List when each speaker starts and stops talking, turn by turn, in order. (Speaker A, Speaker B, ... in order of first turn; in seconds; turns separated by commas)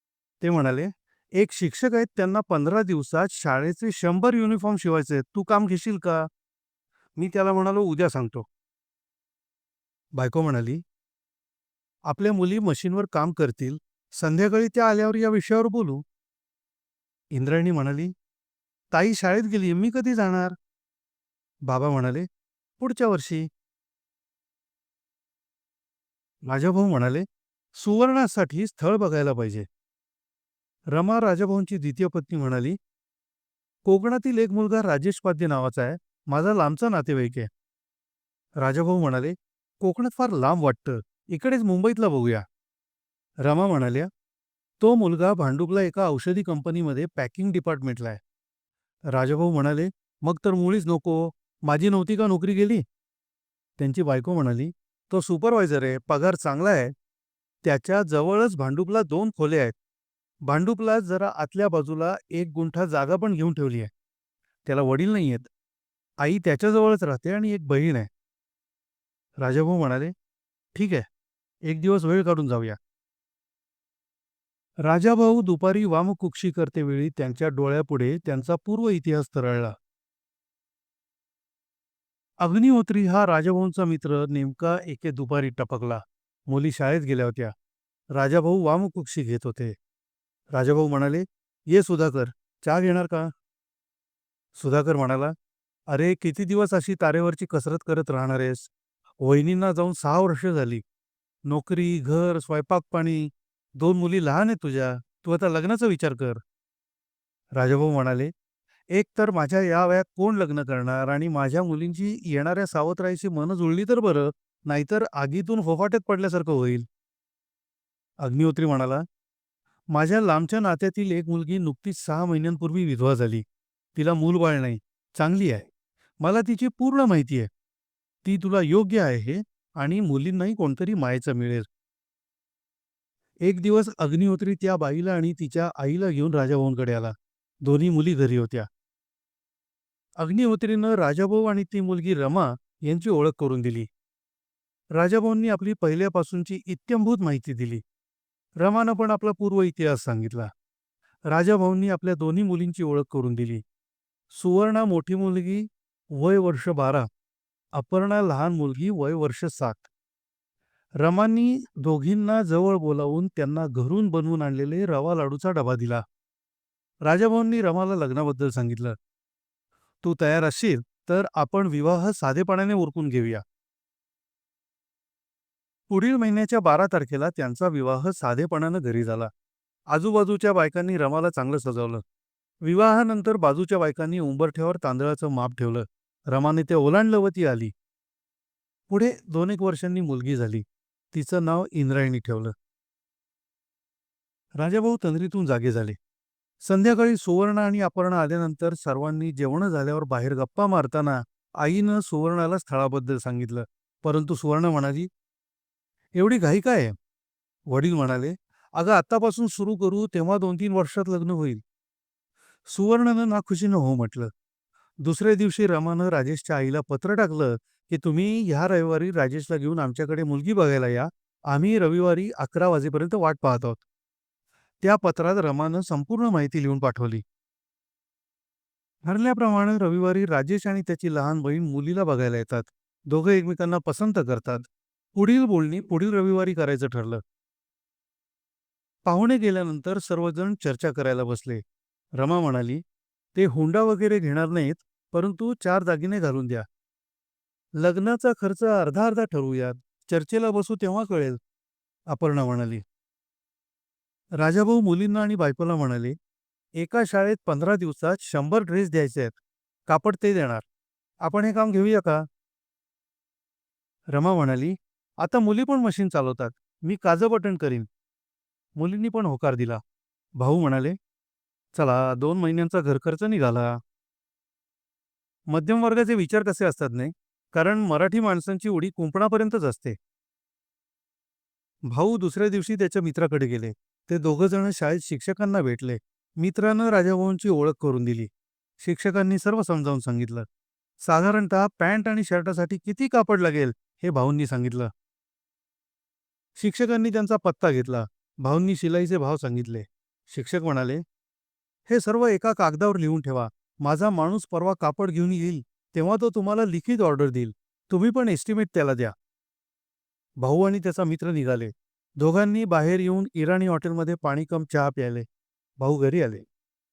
Speaker A: 0.4-6.3, Speaker A: 7.2-8.5, Speaker A: 10.1-10.8, Speaker A: 12.1-16.0, Speaker A: 17.3-18.1, Speaker A: 18.9-20.5, Speaker A: 21.6-22.3, Speaker A: 22.8-23.5, Speaker A: 26.4-27.2, Speaker A: 27.8-29.7, Speaker A: 30.9-32.8, Speaker A: 33.9-37.5, Speaker A: 38.6-42.4, Speaker A: 43.4-44.1, Speaker A: 44.8-48.2, Speaker A: 49.1-52.8, Speaker A: 53.8-56.9, Speaker A: 57.6-59.7, Speaker A: 60.4-63.9, Speaker A: 64.7-65.5, Speaker A: 66.2-68.1, Speaker A: 69.4-70.1, Speaker A: 70.7-71.0, Speaker A: 71.7-72.8, Speaker A: 74.8-79.8, Speaker A: 82.4-87.5, Speaker A: 88.1-89.8, Speaker A: 90.5-93.3, Speaker A: 94.5-95.3, Speaker A: 95.9-98.7, Speaker A: 99.2-100.8, Speaker A: 101.5-106.4, Speaker A: 107.5-108.3, Speaker A: 108.9-116.9, Speaker A: 118.2-119.0, Speaker A: 119.9-123.4, Speaker A: 123.9-125.7, Speaker A: 126.2-127.5, Speaker A: 128.2-131.7, Speaker A: 133.4-138.7, Speaker A: 140.2-143.9, Speaker A: 144.9-147.8, Speaker A: 148.6-150.5, Speaker A: 151.3-153.6, Speaker A: 154.3-157.1, Speaker A: 157.7-159.9, Speaker A: 161.0-166.0, Speaker A: 167.0-168.9, Speaker A: 170.0-173.4, Speaker A: 175.9-179.3, Speaker A: 179.9-182.0, Speaker A: 182.6-187.7, Speaker A: 188.9-192.5, Speaker A: 194.6-196.0, Speaker A: 196.6-205.1, Speaker A: 206.2-206.9, Speaker A: 207.7-211.6, Speaker A: 212.7-214.3, Speaker A: 215.0-223.8, Speaker A: 224.8-227.2, Speaker A: 229.0-237.2, Speaker A: 239.1-241.6, Speaker A: 242.1-242.8, Speaker A: 243.3-246.6, Speaker A: 247.8-251.4, Speaker A: 252.1-252.8, Speaker A: 254.3-256.1, Speaker A: 256.8-260.6, Speaker A: 261.2-262.2, Speaker A: 264.1-267.9, Speaker A: 268.8-269.8, Speaker A: 270.4-271.0, Speaker A: 271.7-273.8, Speaker A: 275.5-280.0, Speaker A: 281.9-288.3, Speaker A: 288.8-290.5, Speaker A: 291.0-294.9, Speaker A: 296.6-301.0, Speaker A: 301.9-309.1, Speaker A: 310.4-315.3, Speaker A: 315.8-316.4